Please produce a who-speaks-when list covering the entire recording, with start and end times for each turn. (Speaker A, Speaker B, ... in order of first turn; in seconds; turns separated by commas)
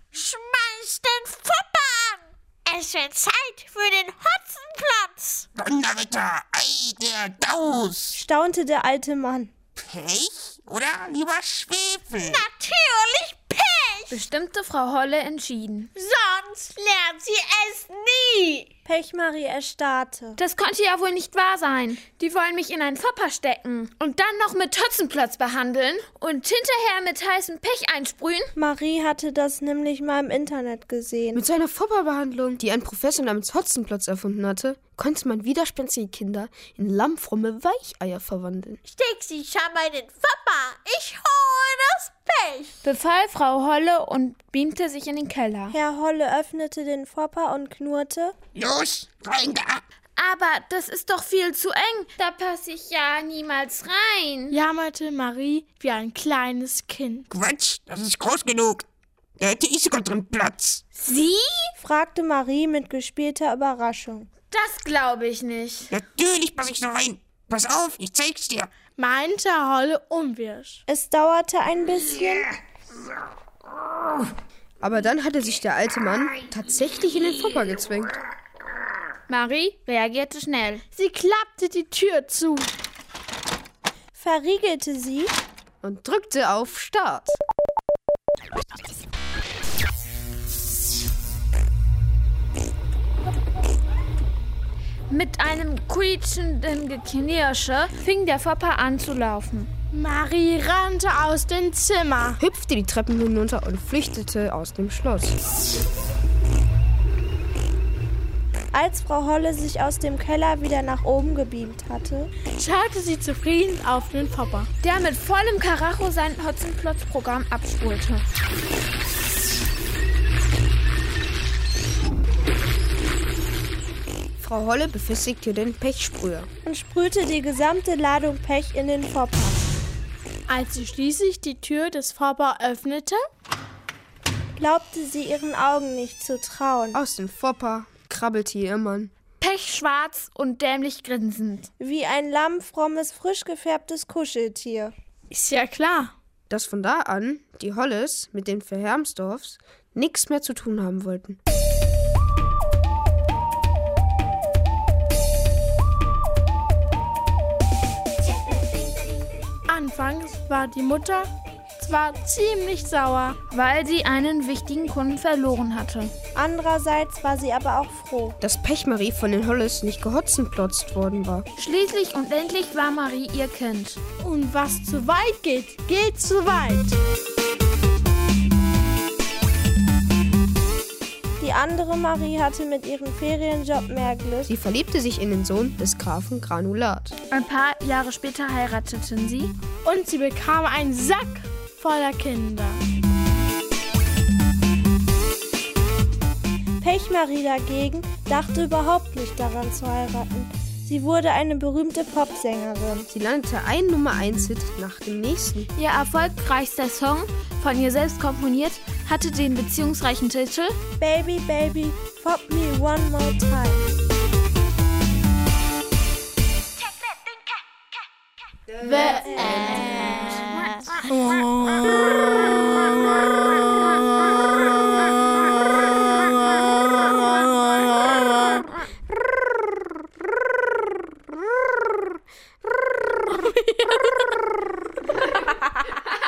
Speaker A: 0.1-5.5, Speaker B: 5.6-8.2, Speaker C: 8.1-9.5, Speaker B: 9.9-12.4, Speaker A: 12.1-14.2, Speaker D: 14.1-15.9, Speaker A: 15.9-18.7, Speaker C: 18.8-20.4, Speaker D: 20.4-28.5, Speaker C: 28.6-31.4, Speaker E: 31.3-38.8, Speaker A: 38.9-42.8, Speaker D: 42.8-45.8, Speaker C: 45.7-48.3, Speaker B: 48.5-49.8, Speaker D: 50.2-54.6, Speaker F: 54.5-57.3, Speaker B: 57.3-58.8, Speaker B: 59.4-60.8, Speaker D: 61.0-61.7, Speaker C: 61.8-64.3, Speaker D: 64.5-65.9, Speaker B: 65.9-68.7, Speaker F: 69.0-70.8, Speaker C: 70.9-72.5, Speaker E: 74.8-78.1, Speaker D: 79.3-80.8, Speaker F: 80.9-82.7, Speaker C: 84.1-85.3, Speaker E: 85.8-87.3, Speaker D: 95.1-99.7, Speaker F: 99.9-102.4, Speaker E: 102.4-105.3, Speaker C: 108.7-112.3, Speaker F: 112.5-114.7, Speaker D: 114.8-118.2, Speaker E: 124.4-126.5, Speaker C: 126.6-129.7, Speaker F: 130.5-133.2, Speaker C: 134.6-137.0, Speaker E: 136.9-139.1, Speaker D: 139.4-141.7, Speaker C: 141.8-144.9, Speaker F: 145.3-146.1, Speaker E: 146.5-151.4, Speaker F: 159.7-163.4, Speaker D: 163.5-166.1, Speaker C: 166.3-168.4, Speaker E: 168.4-171.4, Speaker D: 171.6-174.0, Speaker F: 174.2-177.0, Speaker C: 181.4-184.5, Speaker E: 184.5-187.1, Speaker D: 187.3-189.5, Speaker F: 189.8-192.8, Speaker C: 196.8-203.1, Speaker E: 203.1-205.7, Speaker D: 205.8-210.8, Speaker C: 211.0-213.9, Speaker F: 218.8-220.0, Speaker E: 218.8-219.9, Speaker A: 219.5-220.8, Speaker F: 221.0-222.8, Speaker F: 226.2-228.6, Speaker F: 233.3-234.2